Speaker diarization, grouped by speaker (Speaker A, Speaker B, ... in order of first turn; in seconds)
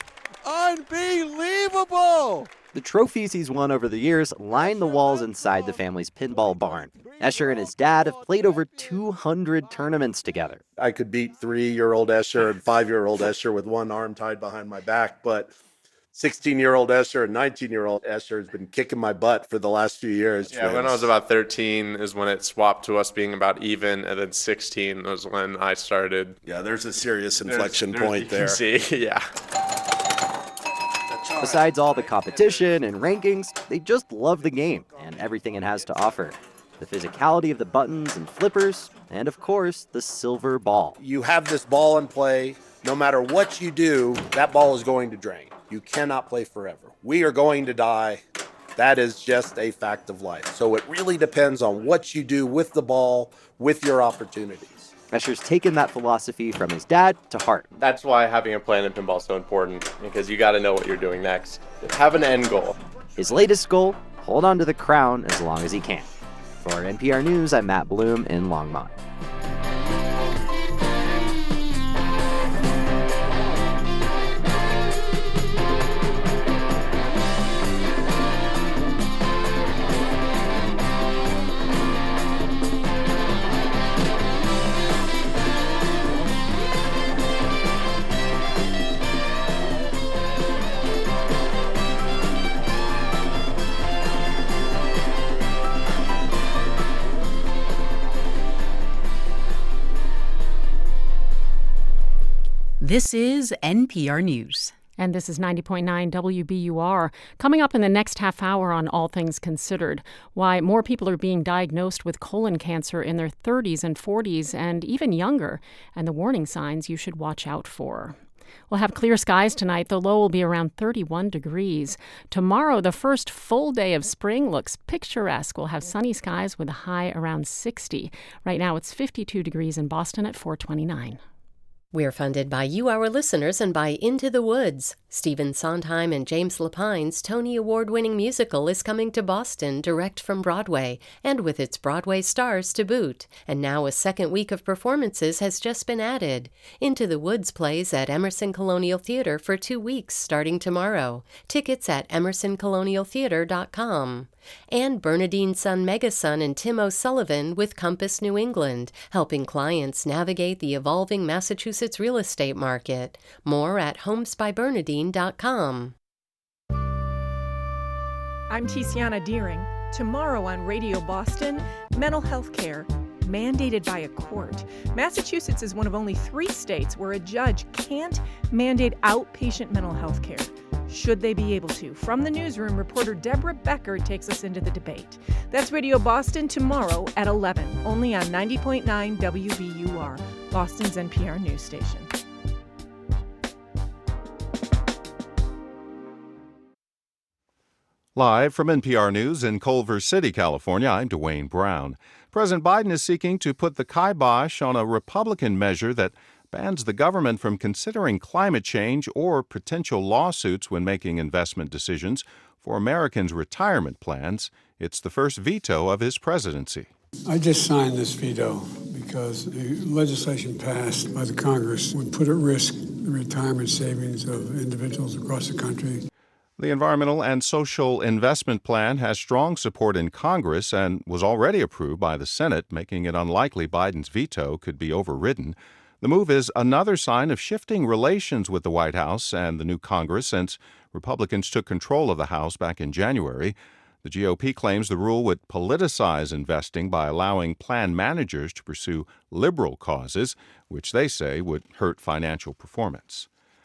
Speaker A: 0.5-2.5, 217.3-225.9
Speaker B: 2.7-10.6, 31.4-41.0, 55.1-57.7, 63.2-68.9
Speaker C: 10.8-15.5, 16.1-21.1, 26.4-28.6, 41.0-48.2, 48.8-54.9
Speaker D: 20.5-26.4, 28.3-29.3, 57.7-62.8
Speaker E: 102.8-104.7
Speaker F: 105.0-118.2, 118.7-131.2
Speaker G: 131.9-165.9
Speaker H: 168.5-192.1
Speaker I: 198.1-216.9, 226.6-253.3